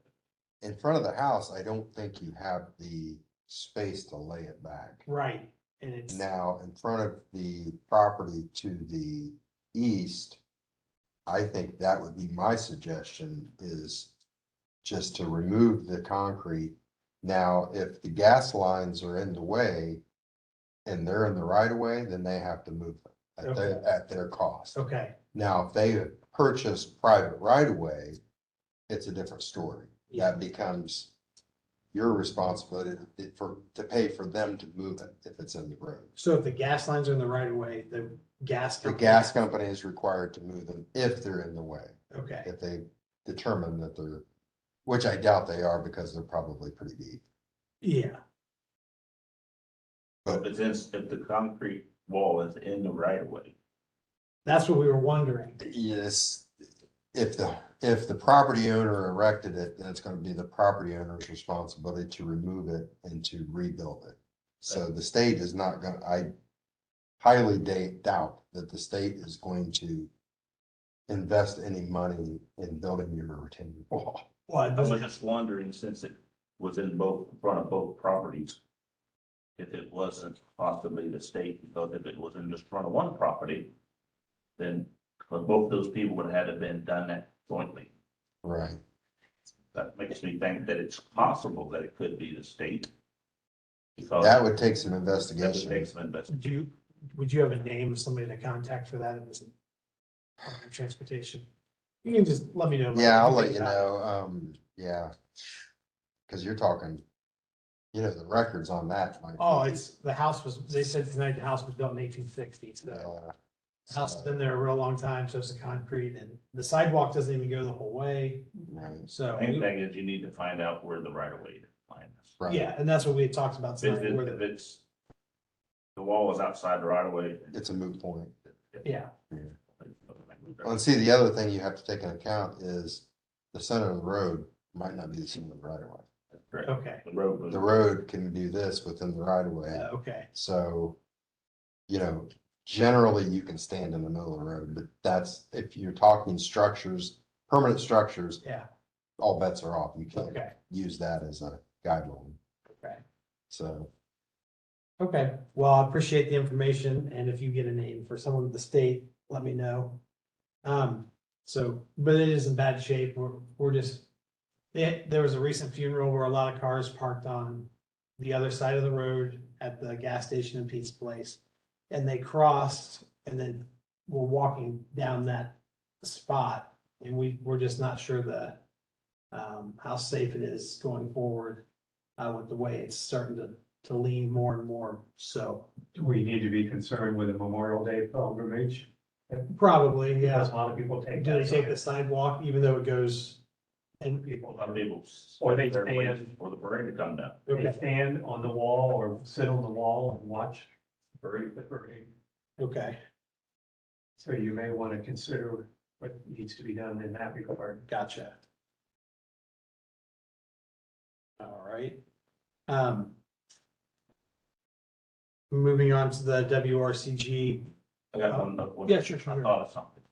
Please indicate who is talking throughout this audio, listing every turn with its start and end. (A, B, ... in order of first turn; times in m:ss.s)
0:00.6-0:05.0 A
0:05.1-0:06.2 B
0:06.1-0:10.4 A
0:11.3-0:14.1 A
0:14.8-0:20.0 A
0:20.9-0:24.8 A
0:23.4-0:23.8 B
0:24.7-0:25.2 B
0:25.3-0:28.2 A
0:28.9-0:31.1 A
0:31.9-0:36.1 A
0:36.2-0:39.3 B
0:38.8-0:44.2 A
0:42.1-0:42.5 B
0:44.9-0:47.2 A
0:47.8-0:48.2 B
0:50.3-0:53.6 C
0:54.4-0:55.6 B
0:55.6-0:56.5 A
0:57.1-1:06.3 A
1:07.2-1:10.1 A
1:11.1-1:14.2 A
1:14.5-1:15.1 B
1:14.8-1:18.6 C
1:19.6-1:23.7 C
1:24.6-1:27.9 C
1:28.4-1:28.8 A
1:29.7-1:32.9 C
1:34.0-1:34.4 C
1:34.2-1:35.9 A
1:35.4-1:36.3 C
1:36.3-1:39.5 B
1:40.4-1:41.5 B
1:42.0-1:43.9 B
1:42.9-1:45.1 A
1:46.3-1:47.0 A
1:47.9-1:49.8 A
1:49.4-1:53.1 B
1:52.9-1:53.3 A
1:53.9-1:54.7 A
1:53.9-1:58.5 B
1:58.7-1:59.1 A
1:59.1-1:59.7 B
1:59.3-2:02.3 C
2:02.4-2:02.7 A
2:02.4-2:04.4 B
2:03.8-2:04.8 C
2:06.0-2:07.8 C
2:07.5-2:08.3 A
2:08.8-2:09.1 B
2:09.8-2:10.8 C
2:10.6-2:16.0 A
2:16.3-2:17.7 C
2:16.6-2:17.0 B
2:17.5-2:21.0 A
2:19.7-2:20.3 B
2:21.9-2:28.4 A
2:28.4-2:28.7 B
2:29.2-2:32.4 A
2:30.2-2:30.5 B
2:32.7-2:33.0 B
2:33.5-2:33.9 A
2:35.0-2:40.0 B
2:40.6-2:44.1 B
2:44.7-2:58.6 B
2:59.3-3:01.6 B
3:02.2-3:05.7 B
3:05.9-3:09.5 D
3:09.5-3:10.5 B
3:10.2-3:11.8 D
3:11.2-3:13.4 B
3:14.0-3:14.3 B
3:14.2-3:14.8 D
3:14.5-3:17.4 C
3:15.4-3:16.3 D
3:17.5-3:17.8 B
3:17.5-3:20.7 D
3:21.2-3:22.1 D
3:22.6-3:23.0 B
3:24.2-3:27.8 D
3:27.9-3:28.4 B
3:31.4-3:32.0 B
3:32.7-3:33.2 B
3:35.5-3:37.7 B
3:38.1-3:40.0 C
3:38.3-3:39.6 B